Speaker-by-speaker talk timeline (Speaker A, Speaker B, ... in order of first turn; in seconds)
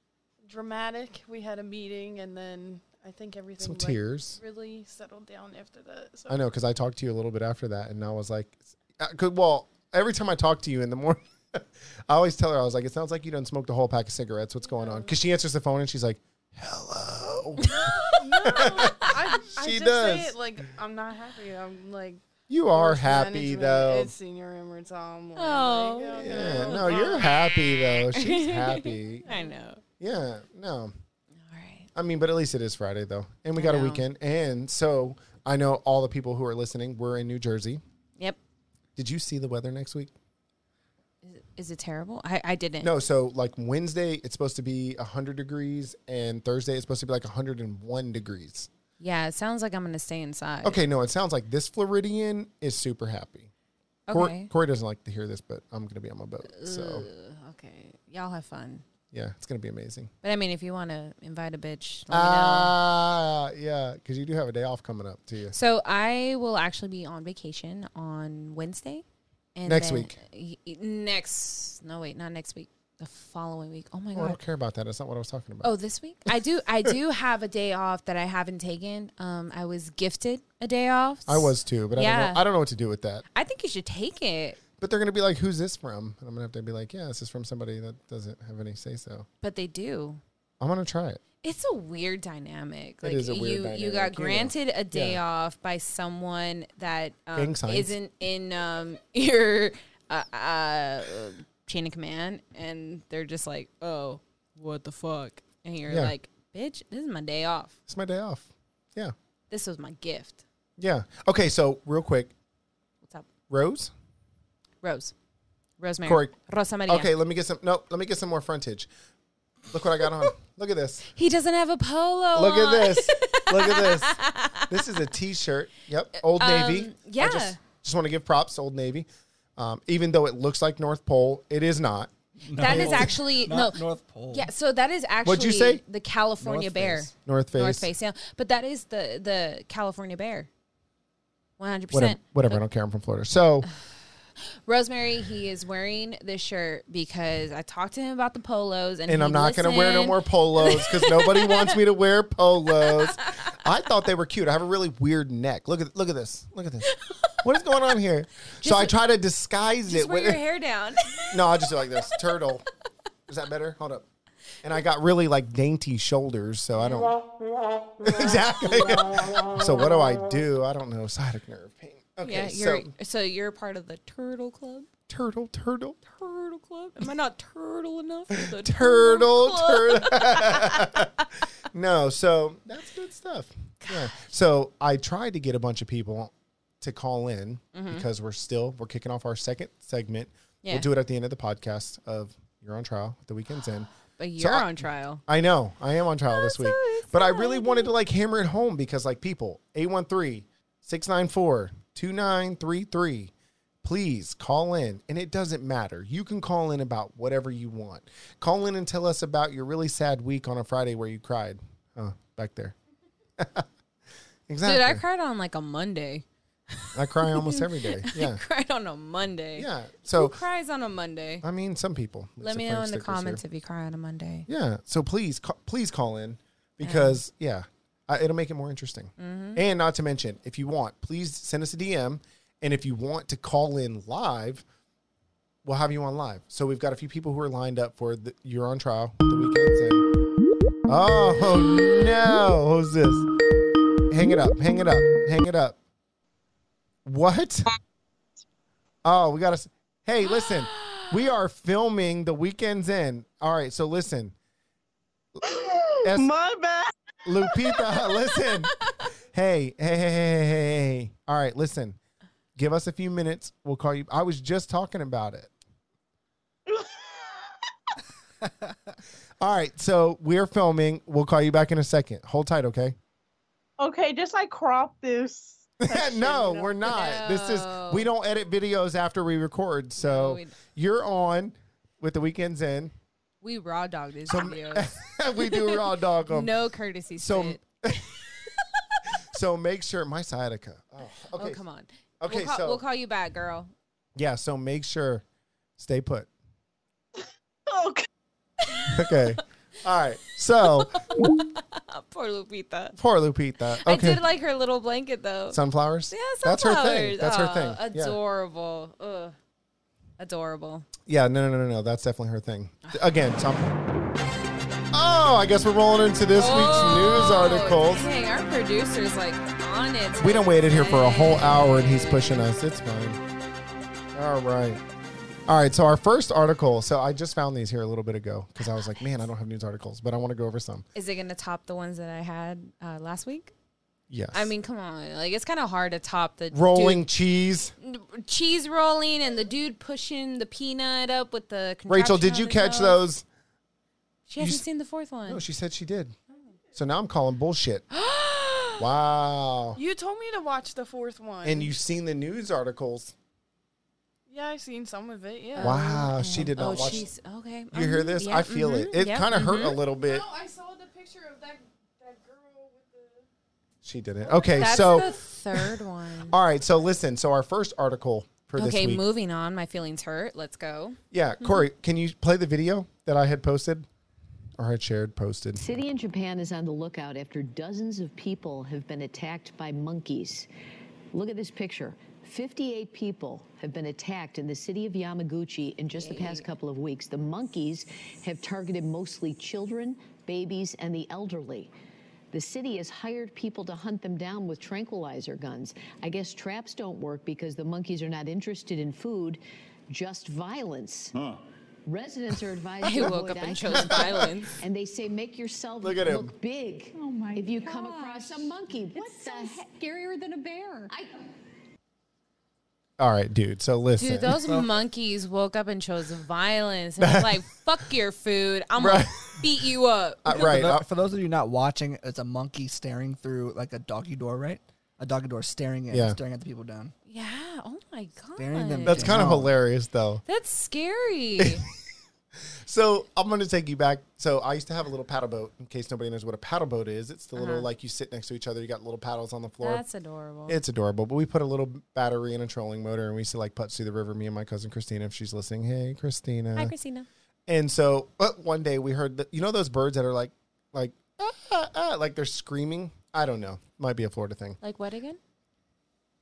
Speaker A: 0.4-6.4, 14.7-15.1, 18.0-27.3, 349.7-351.7, 354.3-356.0, 360.0-363.2, 364.3-365.0
Speaker B: 3.6-4.4, 6.3-17.7, 18.2-20.4, 22.5-24.1, 26.1-29.2, 30.0-30.9, 31.9-37.8, 39.0-40.1, 42.8-48.7, 50.6-53.5, 54.1-57.0, 59.1-60.1, 62.1-65.5, 69.6-70.2, 74.1-75.7, 81.3-83.2, 84.8-89.3, 90.6-91.2, 93.0-95.2, 97.3-97.9, 105.9-106.1, 107.9-109.1, 110.8-112.3, 113.5-113.9, 116.0-116.3, 116.9-118.9, 119.7-121.0, 122.3-133.1, 135.2-135.8, 137.2-137.9, 141.9-143.7, 149.1-156.9, 157.4-160.4, 161.3-162.6, 163.3-164.0, 164.6-167.2, 168.0-172.9, 175.1-176.0, 178.3-181.1, 181.7-203.3, 203.8-212.7, 213.4-213.7, 214.5-215.0, 216.9-218.4, 219.6-220.4, 221.4-223.4, 224.5-234.6, 235.6-240.1, 240.9-243.3, 244.1-245.8, 247.0-247.7, 249.0-254.3, 255.4-256.3, 257.2-258.8, 259.3-262.0, 262.6-265.5, 269.4-272.9, 275.8-282.9, 284.2-286.5, 287.2-288.1, 289.3-291.6, 292.2-292.8, 294.1-295.2, 295.8-296.3, 298.9-301.0, 303.0-304.2, 305.5-308.2, 311.1-313.8, 314.9-318.1, 320.2-323.2, 324.1-324.8, 325.5-330.8, 334.1-334.5, 336.5-337.7, 341.9-343.2, 344.4-344.6, 345.3-346.1, 346.7-347.8, 348.8-349.8, 351.4-353.1, 355.6-357.1, 357.7-360.2, 363.8-365.7, 366.3-369.0, 371.1-373.9, 374.6-375.7, 405.8-406.3, 413.0-414.4, 417.0-417.4, 418.8-419.4, 420.2-420.9, 425.9-426.2, 428.9-430.2, 431.4-431.6, 432.6-439.8, 440.5-446.7, 447.5-454.6
Speaker C: 17.6-19.1, 25.4-29.8, 31.5-31.9, 33.5-34.0, 41.2-42.9, 49.0-50.8, 54.1-54.5, 56.5-58.8, 60.2-62.7, 65.5-69.0, 69.5-74.4, 75.6-82.4, 83.3-84.6, 89.4-90.2, 91.4-107.7, 109.5-110.4, 114.8-115.1, 115.8-117.1, 121.1-124.7, 126.2-127.6, 132.5-140.5, 141.6-142.6, 144.7-151.8, 156.8-157.4, 158.6-158.9, 159.9-161.7, 166.8-167.1, 172.2-174.9, 176.1-181.0, 183.8-184.2, 187.7-188.0, 190.6-190.9, 194.1-195.2, 196.3-197.9, 214.6-221.4, 222.4-224.4, 226.8-227.2, 229.2-229.6, 250.2-251.1, 276.8-278.1, 279.9-280.5, 283.4-288.0, 291.4-293.7, 298.6-299.2, 300.6-303.0, 303.8-309.3, 310.2-310.9, 316.4-322.5, 330.9-333.5, 334.3-337.1, 337.8-343.0, 344.3-345.4, 347.9-348.8, 355.5-359.8, 364.5-366.4, 368.6-371.0, 386.0-386.4, 402.8-404.5, 414.0-420.6, 427.1-429.2, 430.2-431.6, 437.4-437.7, 439.6-440.6, 446.6-447.1, 454.6-455.2
Speaker D: 132.4-134.5, 136.4-137.1, 420.3-426.9, 428.4-429.5
Speaker E: 255.4-257.7, 266.7-267.6, 273.8-276.7, 297.7-298.1
Speaker F: 375.6-380.5, 381.1-391.7, 392.3-401.3, 401.9-409.7, 410.9-411.1